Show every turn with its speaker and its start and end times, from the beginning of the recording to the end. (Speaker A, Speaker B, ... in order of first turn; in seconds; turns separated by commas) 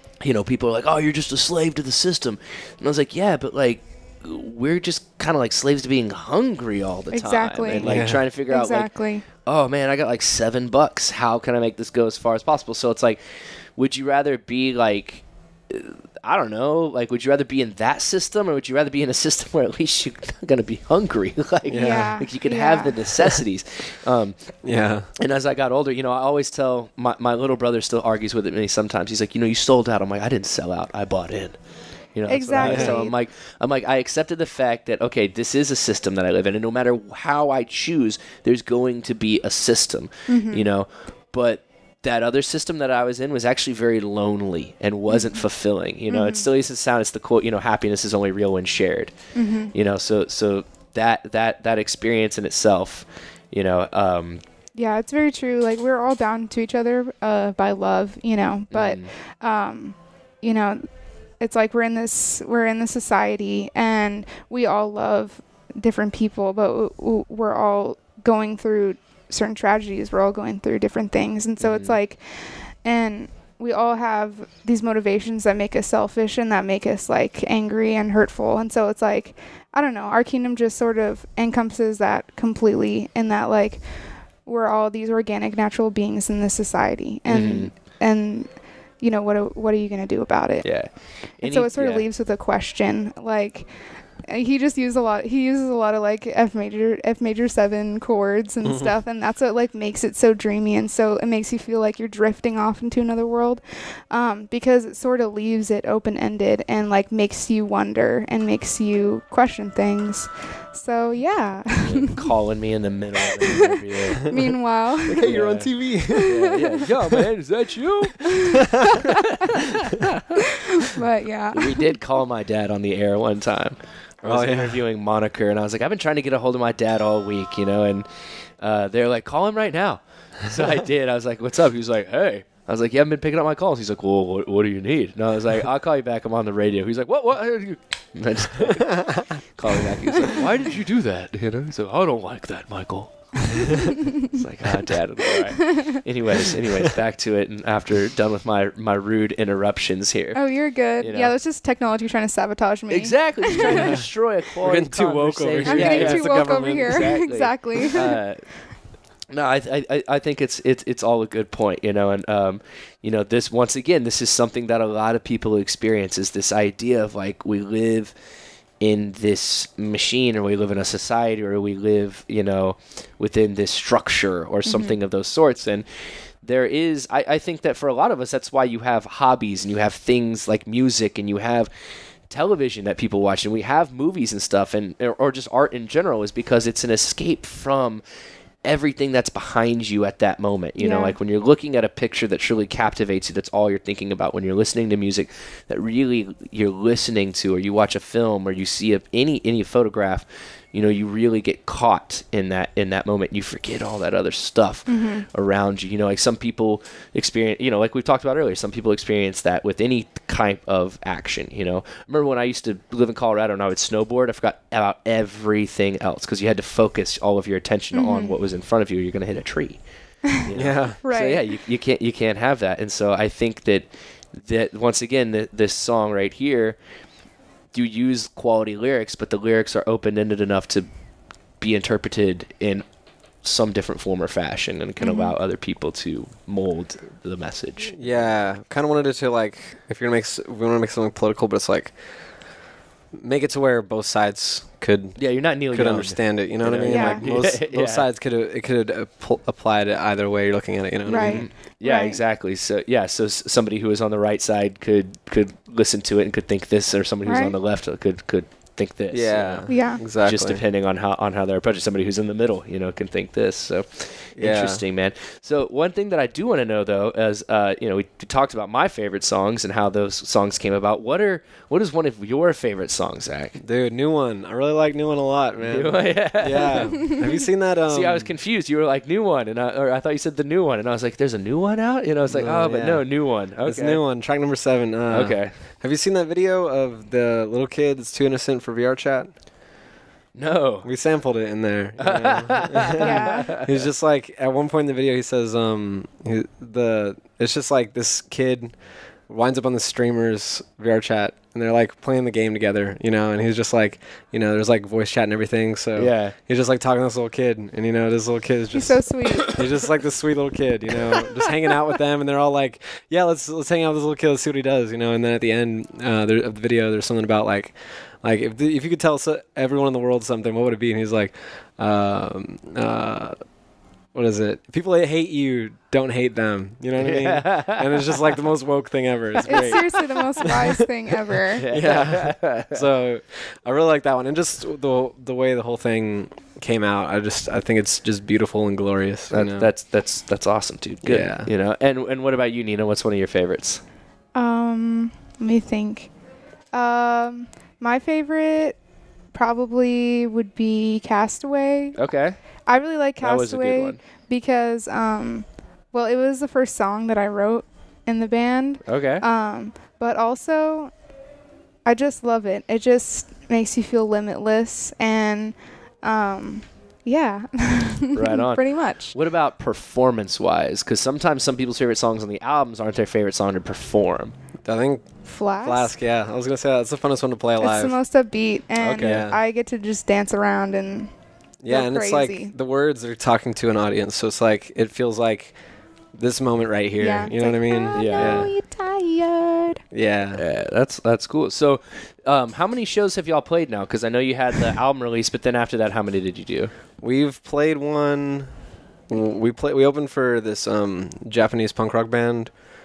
Speaker A: 0.2-8.9, Speaker B: 7.1-9.2, Speaker C: 7.8-8.2, Speaker A: 9.4-13.2, Speaker A: 13.8-24.4, Speaker C: 21.7-22.1, Speaker B: 21.7-23.1, Speaker C: 24.6-25.1, Speaker A: 25.2-31.6, Speaker A: 32.1-49.1, Speaker B: 32.3-33.1, Speaker C: 32.6-33.0, Speaker B: 40.3-40.6, Speaker B: 45.1-45.4, Speaker B: 46.1-46.5, Speaker B: 49.3-49.7, Speaker A: 49.7-54.4, Speaker B: 54.8-60.9, Speaker A: 58.7-59.1, Speaker B: 61.4-72.2, Speaker A: 71.6-72.0, Speaker B: 72.8-83.8, Speaker B: 84.5-88.5, Speaker A: 87.3-87.7, Speaker B: 89.0-90.7, Speaker A: 90.6-92.0, Speaker B: 91.4-93.7, Speaker B: 94.3-112.3, Speaker C: 98.6-98.9, Speaker A: 111.7-114.3, Speaker B: 113.3-115.3, Speaker C: 115.0-117.2, Speaker A: 115.2-118.3, Speaker B: 116.1-116.8, Speaker B: 118.2-119.6, Speaker C: 118.5-119.0, Speaker A: 118.9-120.4, Speaker B: 120.4-122.0, Speaker A: 121.5-128.1, Speaker C: 124.2-124.8, Speaker A: 128.6-150.4, Speaker C: 138.8-139.3, Speaker B: 143.7-144.3, Speaker B: 145.4-146.0, Speaker B: 150.3-154.0, Speaker A: 151.0-151.3, Speaker A: 152.9-158.4, Speaker C: 153.6-154.1, Speaker C: 154.6-157.1, Speaker B: 155.6-158.2, Speaker A: 159.3-168.1, Speaker A: 168.8-175.8, Speaker B: 174.7-174.9, Speaker A: 176.4-181.7, Speaker A: 182.3-188.0, Speaker A: 188.6-219.8, Speaker B: 190.8-191.1, Speaker B: 204.9-205.2, Speaker B: 217.9-218.3, Speaker A: 220.4-226.8, Speaker C: 220.5-221.0, Speaker B: 221.0-221.4, Speaker A: 227.7-230.9, Speaker A: 231.6-232.8, Speaker A: 233.4-238.3, Speaker B: 235.0-235.3, Speaker C: 237.9-241.9, Speaker C: 243.1-245.2, Speaker A: 245.2-248.1, Speaker C: 245.7-251.4, Speaker B: 246.9-247.2, Speaker B: 251.1-252.2, Speaker A: 251.1-273.6, Speaker B: 257.2-257.5, Speaker C: 259.1-260.6, Speaker B: 259.7-260.0, Speaker C: 264.4-264.8, Speaker C: 273.6-278.3, Speaker A: 275.6-277.2, Speaker A: 277.9-284.0, Speaker C: 282.3-283.0, Speaker C: 283.6-289.3, Speaker A: 285.1-285.5, Speaker A: 290.3-290.9, Speaker C: 290.8-298.7, Speaker A: 292.0-293.8, Speaker B: 293.0-293.5, Speaker C: 299.3-323.4, Speaker A: 305.9-306.3, Speaker B: 308.7-309.6, Speaker C: 324.1-330.8, Speaker A: 327.0-328.2, Speaker B: 329.4-331.6, Speaker A: 329.5-329.7, Speaker A: 331.6-332.8, Speaker C: 331.7-339.7, Speaker A: 339.3-343.8, Speaker C: 341.0-341.5, Speaker B: 344.3-346.1, Speaker B: 346.7-348.8, Speaker B: 349.3-352.0, Speaker A: 352.0-352.4, Speaker B: 352.7-360.9, Speaker A: 353.2-354.0, Speaker A: 358.9-359.2, Speaker B: 361.9-369.1, Speaker A: 368.1-374.3, Speaker C: 374.6-375.1, Speaker B: 375.3-375.9, Speaker C: 375.6-377.9, Speaker B: 377.6-381.1, Speaker C: 378.8-379.4, Speaker C: 381.6-385.5, Speaker B: 381.6-382.5, Speaker C: 386.1-388.5, Speaker B: 387.0-389.8, Speaker A: 387.9-388.5, Speaker C: 389.9-390.4, Speaker A: 390.4-396.7, Speaker C: 397.0-398.5, Speaker C: 399.1-402.5